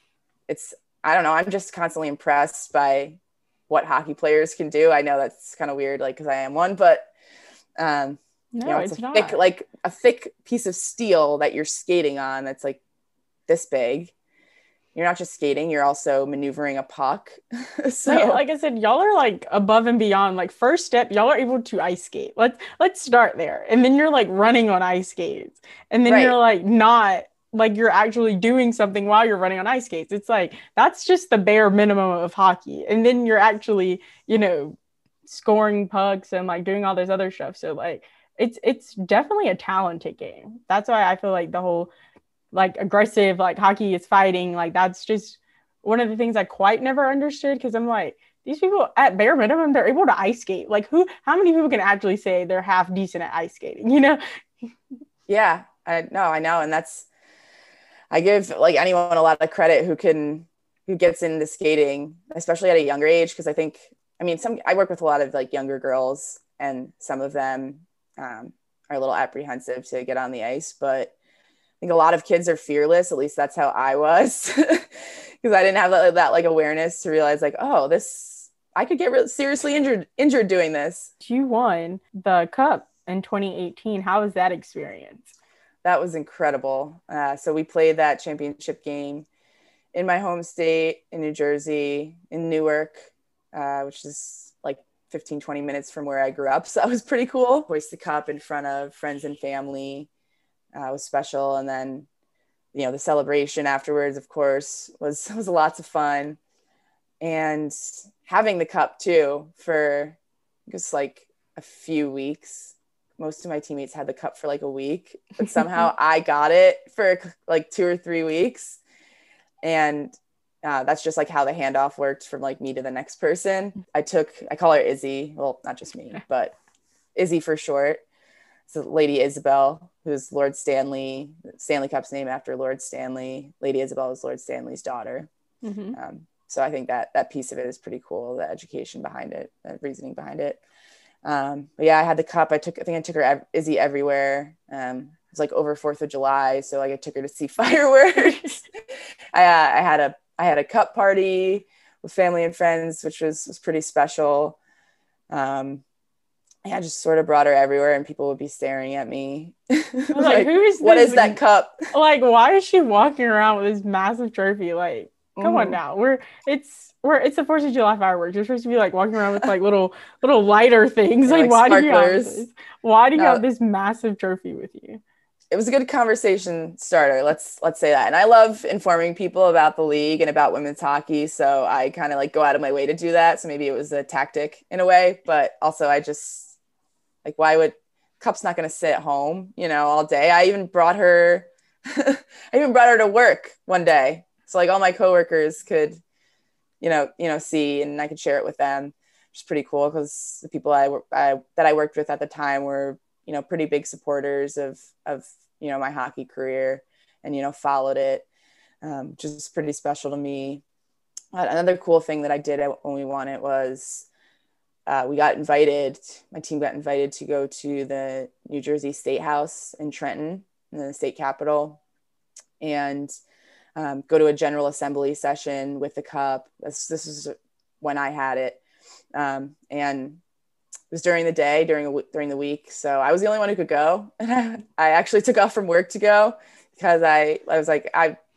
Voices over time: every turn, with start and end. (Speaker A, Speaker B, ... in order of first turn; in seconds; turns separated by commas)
Speaker A: 0.5-7.1, Speaker A: 7.8-12.8, Speaker B: 8.5-9.4, Speaker A: 13.5-14.1, Speaker A: 14.9-18.4, Speaker B: 18.1-41.9, Speaker A: 26.1-26.4, Speaker B: 42.5-54.2, Speaker A: 55.3-57.1, Speaker A: 58.1-71.1, Speaker A: 71.8-81.1, Speaker B: 81.2-85.3, Speaker A: 85.8-89.3, Speaker A: 89.9-100.1, Speaker A: 100.7-102.1, Speaker A: 102.7-106.4, Speaker A: 107.2-118.8, Speaker A: 119.6-120.1, Speaker A: 120.6-126.5, Speaker A: 127.2-128.0, Speaker A: 128.7-135.3, Speaker B: 135.6-136.0, Speaker A: 135.9-140.6, Speaker A: 141.2-148.7, Speaker A: 149.3-154.6, Speaker A: 155.3-155.8, Speaker A: 156.7-161.9, Speaker B: 160.1-161.4, Speaker B: 161.9-175.0, Speaker A: 165.4-165.8, Speaker A: 171.3-172.4, Speaker A: 173.2-173.4, Speaker A: 175.5-186.5, Speaker A: 187.2-196.0, Speaker A: 196.8-208.3, Speaker A: 208.8-210.6, Speaker A: 211.3-214.1, Speaker A: 214.9-221.8, Speaker A: 222.6-223.1, Speaker A: 223.8-228.6, Speaker A: 229.2-230.2, Speaker A: 230.9-238.2